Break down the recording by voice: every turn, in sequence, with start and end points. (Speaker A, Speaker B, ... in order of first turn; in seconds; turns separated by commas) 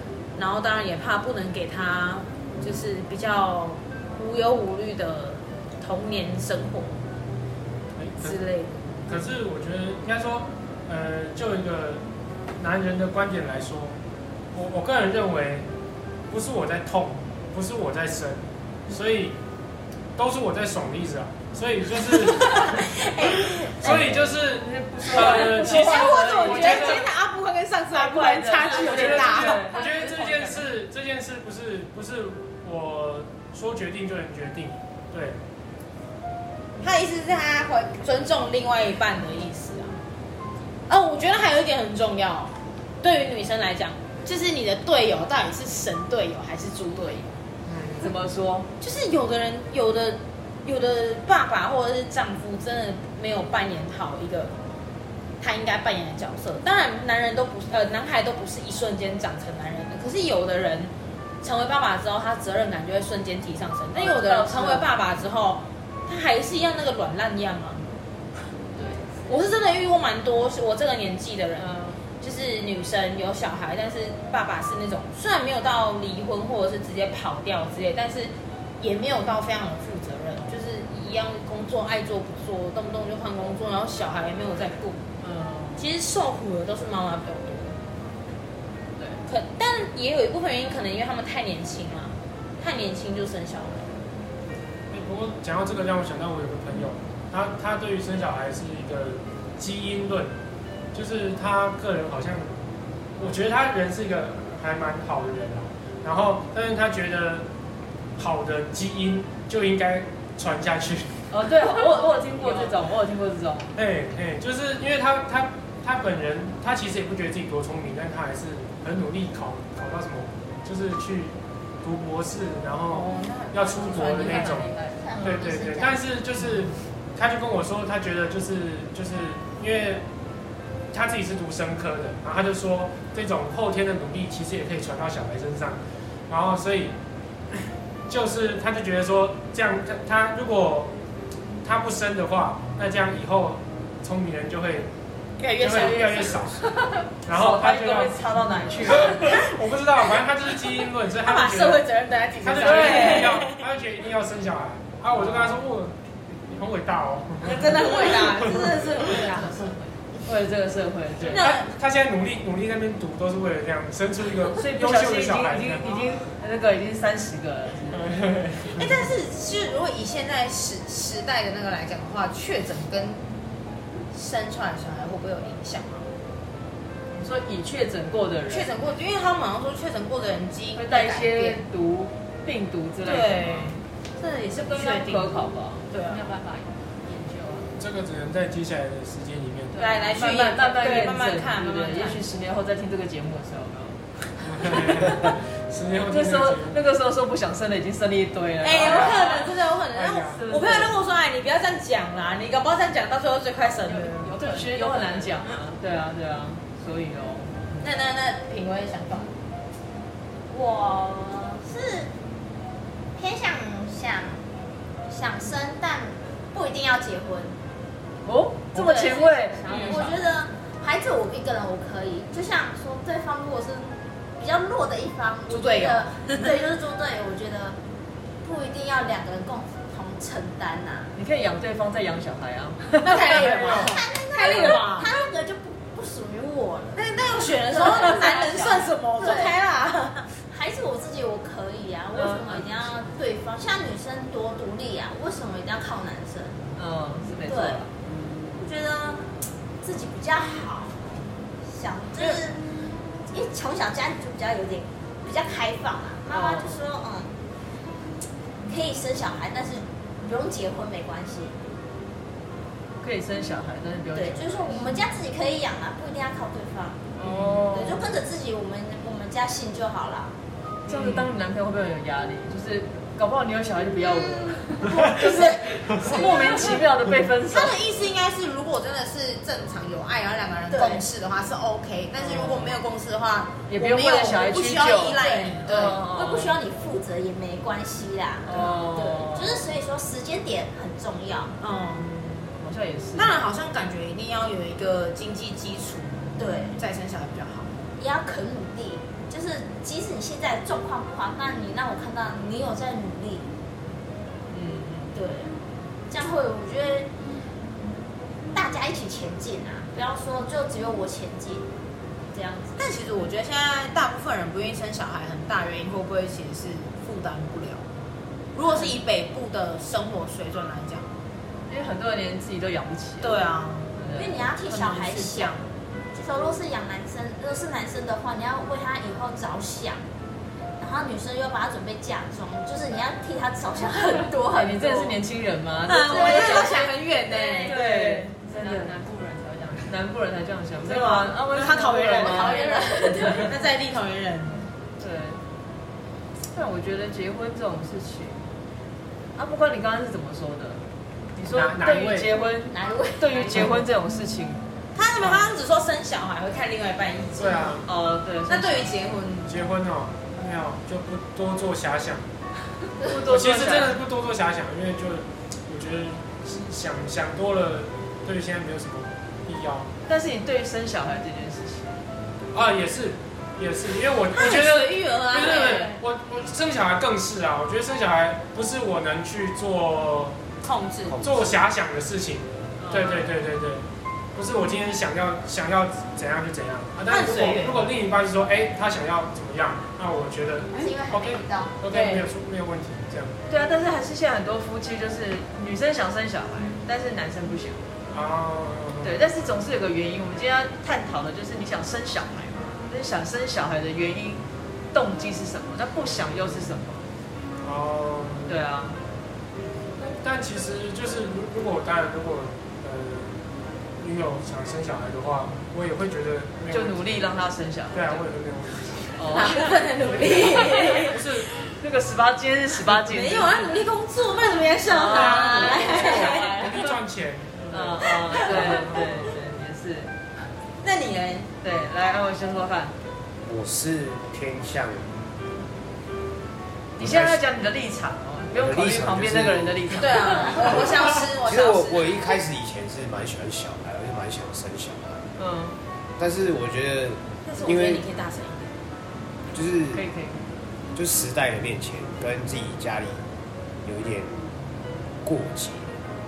Speaker A: 0.3-7.0, Speaker B: 8.0-8.4, Speaker A: 8.2-9.0, Speaker B: 9.1-12.0, Speaker B: 12.6-13.9, Speaker B: 14.5-15.7, Speaker B: 16.3-19.4, Speaker B: 20.2-22.9, Speaker A: 22.7-24.0, Speaker B: 23.6-27.1, Speaker C: 23.8-27.1, Speaker A: 25.1-29.6, Speaker C: 27.9-29.8, Speaker B: 28.7-35.4, Speaker D: 28.9-30.7, Speaker A: 36.8-40.0, Speaker A: 40.9-47.3, Speaker B: 47.7-48.1, Speaker C: 48.0-48.7, Speaker A: 48.8-54.5, Speaker A: 55.4-67.8, Speaker C: 64.0-64.9, Speaker D: 68.7-69.5, Speaker A: 69.3-85.0, Speaker C: 71.6-72.0, Speaker C: 85.2-85.8, Speaker A: 85.8-87.8, Speaker A: 89.3-94.0, Speaker B: 94.9-100.3, Speaker B: 100.9-102.5, Speaker B: 103.2-107.5, Speaker B: 108.2-111.3, Speaker C: 111.3-113.7, Speaker B: 113.8-124.7, Speaker A: 122.9-124.7, Speaker C: 124.0-124.6, Speaker D: 124.4-125.0, Speaker E: 125.0-126.0, Speaker B: 125.2-130.0, Speaker B: 130.9-137.0, Speaker B: 138.1-140.9, Speaker B: 141.6-144.9, Speaker A: 145.4-146.5, Speaker B: 145.6-146.7, Speaker B: 147.2-148.2, Speaker C: 147.3-149.3, Speaker B: 148.8-151.8, Speaker A: 151.2-153.6, Speaker B: 152.4-158.6, Speaker C: 152.6-153.4, Speaker C: 155.2-155.6, Speaker A: 157.4-159.7, Speaker D: 158.1-160.0, Speaker C: 160.2-161.5, Speaker B: 161.2-166.1, Speaker A: 161.3-161.7, Speaker C: 164.6-168.1, Speaker B: 167.9-169.0, Speaker A: 168.7-173.2, Speaker A: 174.1-176.1, Speaker C: 177.1-178.7, Speaker A: 178.5-181.6, Speaker C: 180.8-183.8, Speaker A: 183.0-186.3, Speaker C: 184.6-185.8, Speaker D: 186.1-187.8, Speaker B: 187.8-189.8, Speaker D: 189.7-190.2, Speaker A: 189.8-192.2, Speaker C: 190.1-194.0, Speaker B: 194.4-196.8, Speaker C: 194.6-195.3, Speaker C: 196.1-199.3, Speaker A: 198.6-204.3, Speaker B: 198.7-199.4, Speaker D: 199.0-199.5, Speaker B: 199.9-200.9, Speaker D: 200.3-200.9, Speaker D: 203.8-205.5, Speaker C: 204.3-207.8, Speaker A: 207.8-209.3, Speaker E: 210.5-212.1, Speaker E: 213.2-214.4, Speaker E: 215.1-217.6, Speaker C: 218.2-220.0, Speaker A: 218.8-219.1, Speaker E: 218.8-227.8, Speaker D: 219.6-220.2, Speaker A: 219.7-220.0, Speaker A: 225.5-226.4, Speaker E: 228.4-231.1, Speaker C: 231.1-233.5, Speaker A: 233.0-235.1, Speaker B: 233.3-233.9, Speaker E: 233.4-237.1, Speaker A: 237.0-240.3, Speaker E: 237.6-239.6, Speaker E: 240.5-246.6, Speaker C: 242.2-242.9, Speaker C: 246.8-247.9, Speaker E: 247.5-247.8, Speaker E: 248.6-249.3, Speaker E: 249.8-252.7, Speaker E: 253.3-257.3, Speaker C: 256.3-256.8, Speaker E: 258.7-261.6, Speaker C: 263.0-264.9, Speaker E: 264.1-267.1, Speaker C: 267.2-268.1, Speaker E: 267.7-270.3, Speaker C: 270.9-277.8, Speaker E: 274.1-274.8, Speaker A: 274.9-276.8, Speaker E: 276.0-276.7, Speaker A: 277.4-286.1, Speaker E: 280.7-281.1, Speaker C: 282.2-282.8, Speaker C: 283.7-286.6, Speaker E: 285.2-291.5, Speaker C: 288.4-289.6, Speaker A: 291.6-292.1, Speaker C: 292.5-293.4, Speaker A: 293.2-297.7, Speaker E: 296.4-296.8, Speaker E: 298.0-303.5, Speaker C: 304.5-305.1, Speaker E: 305.1-305.5, Speaker E: 306.1-307.1, Speaker E: 308.5-311.7, Speaker E: 312.3-312.8, Speaker A: 312.8-317.9, Speaker A: 318.5-321.1, Speaker C: 321.7-323.4, Speaker A: 323.2-325.6, Speaker C: 324.0-324.4, Speaker E: 324.1-325.6, Speaker E: 326.1-330.0, Speaker E: 330.8-335.2, Speaker C: 334.5-336.9, Speaker A: 335.9-337.8, Speaker E: 336.0-336.9, Speaker D: 337.3-340.0, Speaker C: 337.6-338.9, Speaker C: 339.9-343.4, Speaker A: 340.8-344.6, Speaker E: 342.2-343.4, Speaker D: 342.4-343.3, Speaker C: 345.0-345.4, Speaker C: 346.5-348.4, Speaker C: 349.4-350.9, Speaker C: 351.4-354.6, Speaker B: 351.5-352.3, Speaker E: 352.7-353.6, Speaker A: 354.9-357.9, Speaker B: 357.4-357.9, Speaker C: 357.9-358.9, Speaker A: 358.5-359.5, Speaker B: 359.5-362.3, Speaker C: 363.0-364.0, Speaker B: 363.3-369.9, Speaker C: 370.1-372.0, Speaker B: 372.5-380.4, Speaker A: 374.3-376.0, Speaker A: 380.6-381.2, Speaker F: 381.1-381.5, Speaker B: 381.2-383.8, Speaker C: 382.8-383.3, Speaker B: 384.4-393.4, Speaker A: 387.1-387.9, Speaker E: 390.7-391.8, Speaker A: 391.9-392.2, Speaker C: 393.5-397.9, Speaker B: 398.1-399.2, Speaker C: 399.0-407.1, Speaker B: 407.6-408.6, Speaker C: 408.5-409.0, Speaker B: 410.0-413.3, Speaker B: 414.0-417.3, Speaker C: 416.7-418.2, Speaker B: 417.9-421.6, Speaker C: 419.1-419.8, Speaker A: 419.3-421.2, Speaker C: 420.6-420.9, Speaker C: 421.8-423.8, Speaker A: 422.8-426.6, Speaker C: 424.9-426.9, Speaker B: 425.1-429.1, Speaker C: 427.7-430.1, Speaker A: 428.2-429.0, Speaker A: 430.8-431.5, Speaker C: 431.6-432.9, Speaker F: 433.4-435.1, Speaker C: 437.0-440.8, Speaker F: 437.0-437.4, Speaker F: 438.5-445.2, Speaker A: 439.9-442.2, Speaker C: 445.4-445.8, Speaker F: 446.2-448.0, Speaker A: 447.4-448.7, Speaker F: 449.5-450.1, Speaker C: 449.9-450.4, Speaker F: 450.9-453.2, Speaker F: 453.8-454.5, Speaker F: 455.2-455.9